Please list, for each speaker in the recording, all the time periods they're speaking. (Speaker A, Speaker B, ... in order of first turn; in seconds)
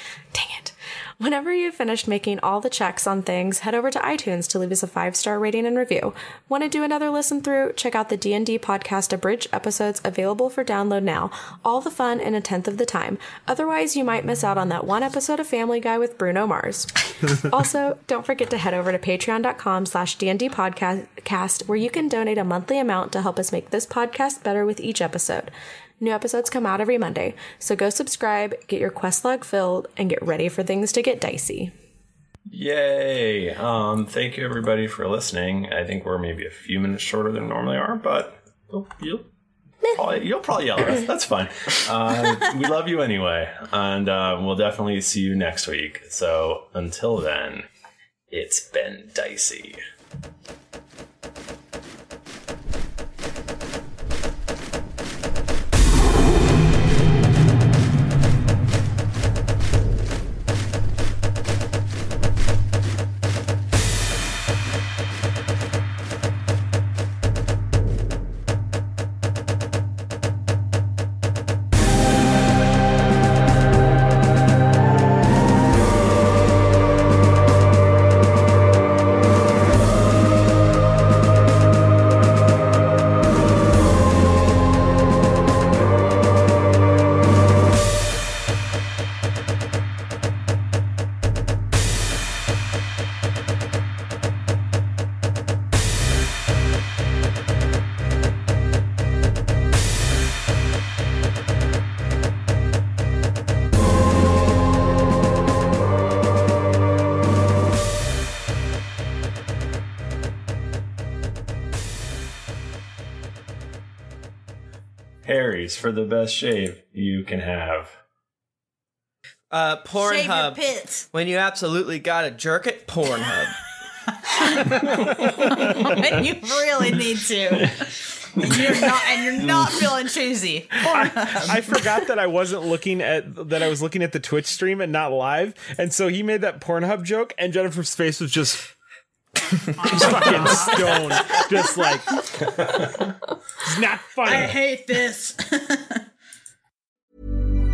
Speaker A: 0.3-31.7
Speaker B: 32.5-39.3, 39.9-47.7, 48.3-49.8, 115.2-117.9, 142.4-143.1
Speaker C: 119.5-120.6, 121.1-123.6
Speaker D: 120.0-121.1, 124.3-131.7, 140.4-140.7, 144.2-146.0
Speaker E: 130.9-138.7, 139.8-142.2, 143.6-144.6